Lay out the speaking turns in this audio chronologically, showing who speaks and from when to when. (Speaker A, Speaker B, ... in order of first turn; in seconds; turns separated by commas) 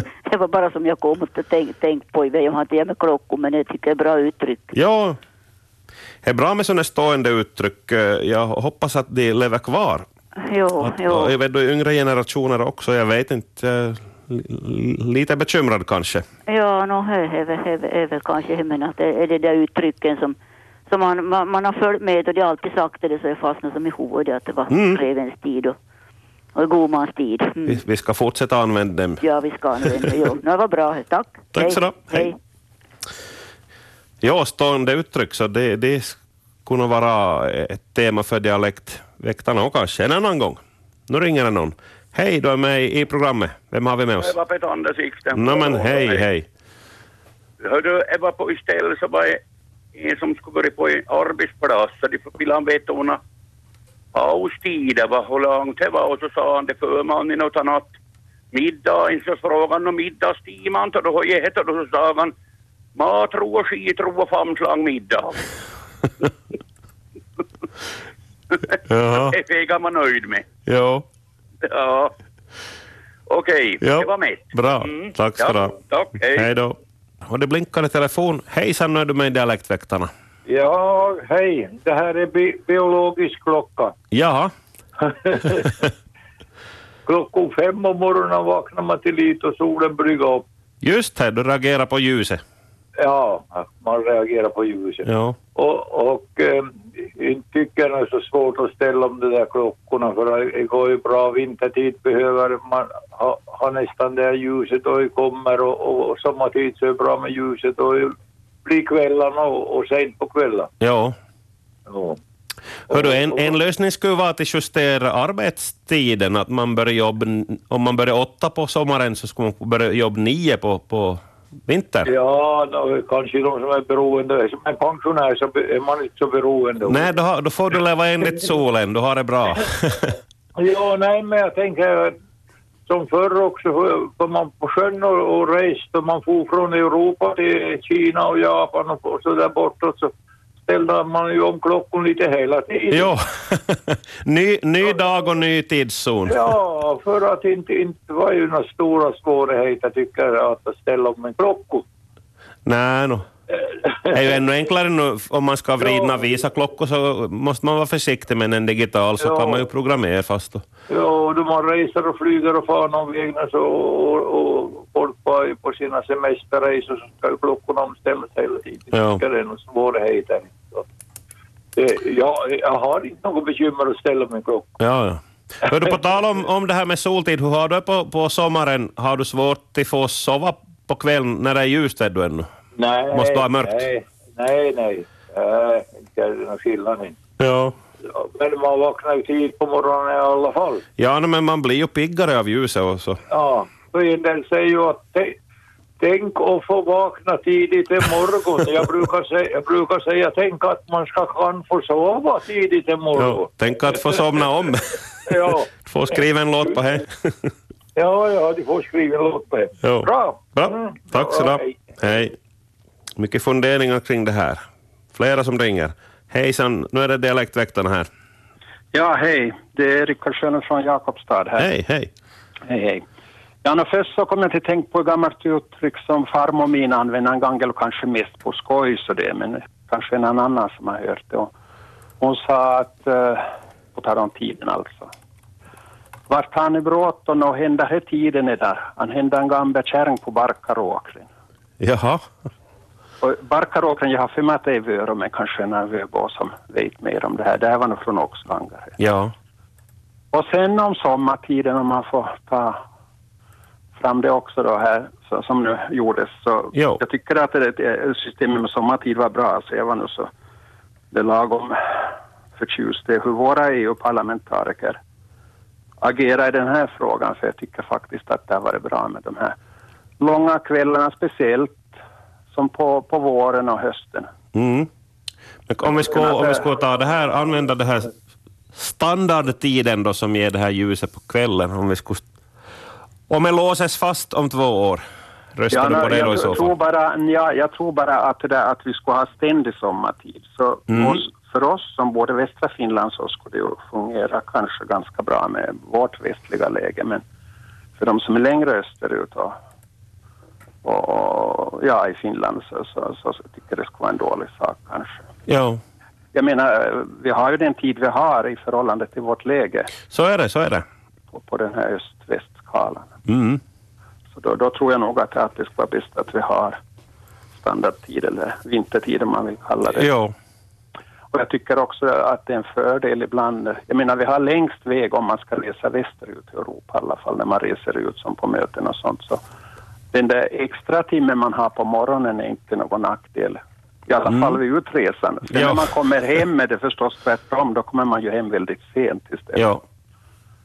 Speaker A: 0.2-4.7, Speaker B: 4.7-5.2, Speaker B: 6.2-10.1, Speaker A: 10.4-11.3, Speaker B: 10.8-16.2, Speaker A: 16.5-20.4, Speaker A: 20.9-25.8, Speaker B: 24.7-25.0, Speaker A: 26.5-27.8, Speaker B: 27.6-29.2, Speaker A: 29.2-32.4, Speaker B: 29.8-30.1, Speaker B: 31.5-32.3, Speaker B: 34.2-44.4, Speaker C: 44.2-46.2, Speaker B: 45.3-46.5, Speaker C: 47.6-49.4, Speaker C: 49.9-53.2, Speaker C: 54.1-57.9, Speaker C: 58.5-62.3, Speaker C: 63.0-65.4, Speaker B: 68.8-69.4, Speaker C: 69.1-70.5, Speaker B: 70.7-71.0, Speaker C: 71.6-72.1, Speaker C: 73.3-76.5, Speaker B: 73.8-75.8, Speaker B: 76.3-80.1, Speaker D: 80.5-83.9, Speaker B: 84.1-84.5, Speaker D: 85.0-85.8, Speaker D: 87.0-90.4, Speaker B: 90.8-92.4, Speaker D: 93.0-108.1, Speaker B: 95.0-95.3, Speaker D: 108.6-110.7, Speaker B: 110.8-111.2, Speaker D: 111.9-112.2, Speaker B: 112.9-122.1, Speaker D: 112.9-113.5, Speaker D: 122.0-127.1, Speaker B: 126.8-130.1, Speaker D: 130.6-132.1, Speaker D: 132.9-140.1, Speaker D: 140.7-143.1, Speaker B: 142.9-146.5, Speaker D: 146.3-151.8, Speaker B: 152.6-153.3, Speaker D: 153.5-154.3, Speaker B: 154.1-160.7, Speaker D: 155.8-156.1, Speaker D: 159.2-159.6, Speaker D: 160.9-170.8, Speaker B: 168.9-169.2, Speaker D: 171.8-174.8, Speaker B: 174.8-182.5, Speaker D: 182.8-187.2, Speaker B: 183.1-183.8, Speaker B: 187.4-187.7, Speaker D: 188.0-190.8, Speaker B: 191.0-193.2, Speaker D: 193.3-195.4, Speaker D: 196.0-204.2, Speaker B: 203.2-207.5, Speaker D: 205.2-205.7, Speaker D: 207.9-211.7, Speaker B: 209.8-212.3, Speaker B: 213.2-214.6, Speaker B: 215.1-218.1, Speaker E: 218.9-221.7, Speaker B: 221.6-222.1, Speaker E: 222.7-223.0, Speaker E: 223.6-231.5, Speaker E: 232.2-235.1, Speaker E: 236.3-241.3, Speaker B: 241.8-242.2, Speaker E: 243.2-248.9, Speaker B: 249.0-249.3, Speaker E: 250.3-252.8, Speaker E: 253.9-260.3, Speaker B: 256.7-257.0, Speaker E: 261.1-265.0, Speaker E: 266.0-269.6, Speaker E: 270.2-271.9, Speaker E: 272.5-274.3, Speaker B: 274.5-274.9, Speaker B: 275.7-278.1, Speaker E: 276.0-276.6, Speaker B: 278.7-282.2, Speaker B: 283.3-285.0, Speaker B: 285.5-286.7, Speaker E: 285.7-297.2, Speaker B: 290.9-291.2, Speaker E: 298.0-299.5, Speaker E: 300.8-305.2, Speaker B: 305.5-305.8, Speaker E: 306.3-309.9, Speaker B: 310.1-310.8, Speaker E: 311.3-313.1, Speaker B: 313.3-313.6, Speaker E: 314.3-316.8, Speaker E: 317.6-320.1, Speaker B: 319.9-320.3, Speaker E: 321.3-329.4, Speaker E: 330.1-339.7, Speaker B: 334.3-334.6, Speaker B: 335.5-335.9, Speaker B: 339.6-339.8